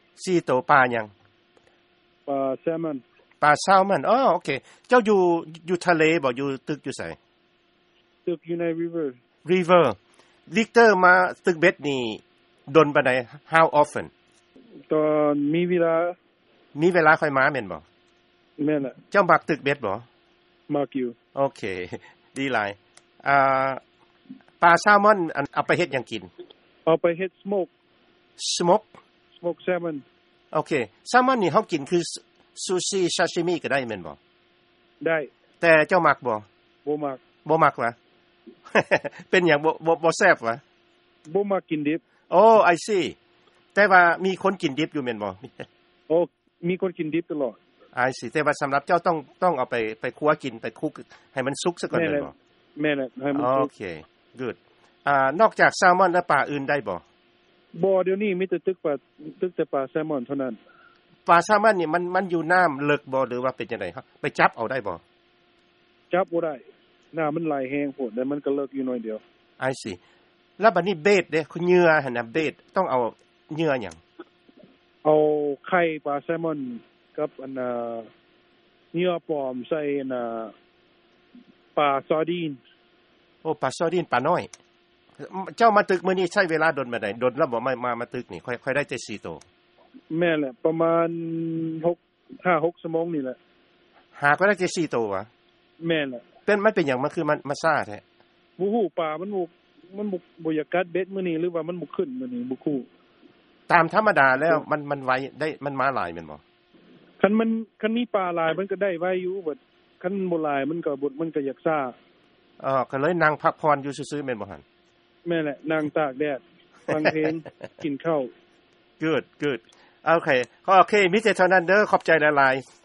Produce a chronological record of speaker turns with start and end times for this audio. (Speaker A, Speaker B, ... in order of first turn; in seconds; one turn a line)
Speaker A: 0.2-1.1
Speaker B: 2.3-3.0
Speaker A: 3.4-7.2
Speaker B: 8.2-9.2
Speaker A: 9.4-10.0
Speaker A: 10.5-14.1
Speaker B: 14.9-16.1
Speaker A: 16.7-17.8
Speaker B: 18.6-19.0
Speaker A: 19.1-20.0
Speaker B: 20.7-21.1
Speaker A: 21.3-23.8
Speaker A: 24.6-26.3
Speaker B: 26.8-27.7
Speaker A: 28.4-28.9
Speaker B: 29.4-30.0
Speaker A: 30.5-34.2
Speaker B: 35.0-35.3
Speaker A: 35.6-36.4
Speaker B: 36.8-37.2
Speaker A: 37.4-37.9
Speaker A: 38.7-40.6
Speaker B: 41.2-42.0
Speaker A: 42.3-43.1
Speaker A: 43.7-45.7
Speaker B: 46.1-47.6
Speaker A: 47.9-52.3
Speaker B: 51.9-53.7
Speaker A: 53.3-57.0
Speaker B: 57.7-60.6
Speaker A: 61.2-65.0
Speaker B: 66.1-69.2
Speaker A: 69.6-70.0
Speaker A: 70.6-74.0
Speaker B: 75.0-78.1
Speaker B: 78.9-80.5
Speaker B: 81.7-82.6
Speaker A: 83.4-84.5
Speaker A: 85.2-89.4
Speaker B: 90.1-93.4
Speaker A: 94.1-95.3
Speaker B: 95.8-96.2
Speaker A: 96.5-98.0
Speaker B: 98.6-102.8
Speaker A: 103.7-106.4
Speaker B: 104.4-104.6
Speaker B: 107.2-111.9
Speaker A: 112.6-114.6
Speaker B: 115.2-118.3
Speaker A: 119.0-122.6